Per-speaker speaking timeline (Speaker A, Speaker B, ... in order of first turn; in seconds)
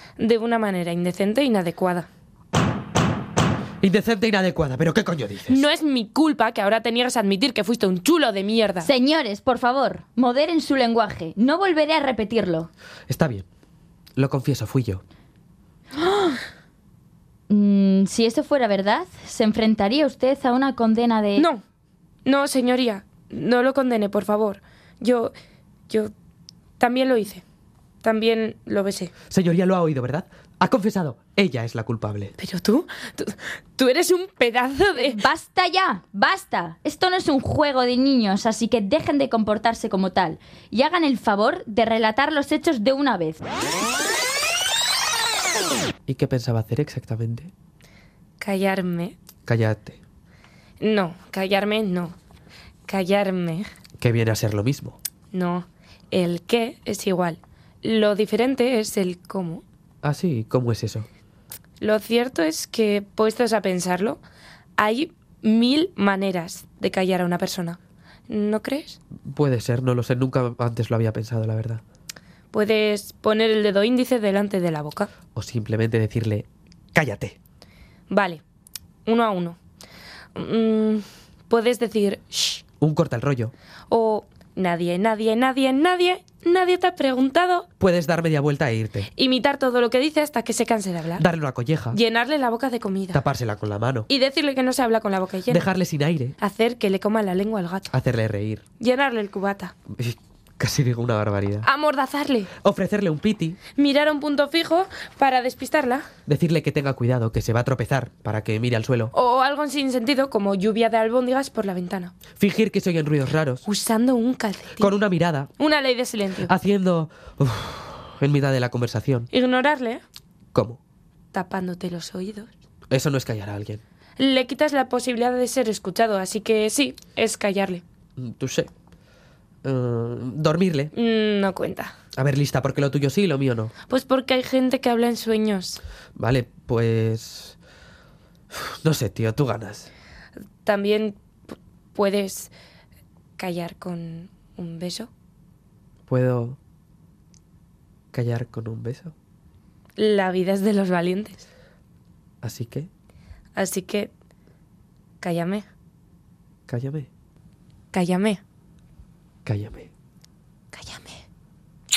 Speaker A: 0.2-2.1, 5.5-8.9, 21.4-21.6, 22.2-25.3, 26.8-27.4, 28.0-29.1, 32.4-35.2, 48.4-49.1, 50.8-52.1, 52.9-53.7, 55.3-59.6, 61.8-64.2, 64.8-69.0, 72.5-75.1, 78.1-78.4, 79.0-79.6, 80.3-82.6, 83.9-87.7, 89.1-91.2, 91.9-93.2, 94.1-95.6, 96.4-97.9, 98.8-99.7, 101.6-102.5, 103.8-106.1, 109.1-112.1, 113.6-115.0, 115.6-116.5, 119.3-120.0, 121.3-122.5, 124.2-127.8, 130.9-131.9, 133.9-135.8, 140.6-142.5, 143.4-145.1, 150.0-151.4, 153.5-154.1, 155.2-155.7, 157.9-158.4, 160.7-161.2
Speaker B: 3.8-5.6, 13.1-13.5, 14.2-15.0, 29.3-32.3, 46.1-47.5, 49.5-50.0, 54.0-55.0, 60.0-61.1, 69.2-71.8, 75.3-77.4, 82.8-83.5, 87.8-89.1, 91.2-92.0, 93.1-94.1, 95.5-96.3, 97.9-98.6, 99.9-101.7, 102.6-103.6, 106.2-109.1, 112.3-113.6, 114.8-115.5, 116.4-119.3, 120.5-120.8, 122.9-123.8, 128.2-128.7, 129.6-130.9, 132.2-133.7, 136.2-137.6, 138.5-139.9, 146.1-146.6, 148.1-149.1, 152.4-152.9, 156.7-157.1, 159.4-159.9
Speaker C: 8.8-12.7, 16.0-16.4, 17.5-21.4, 34.9-43.4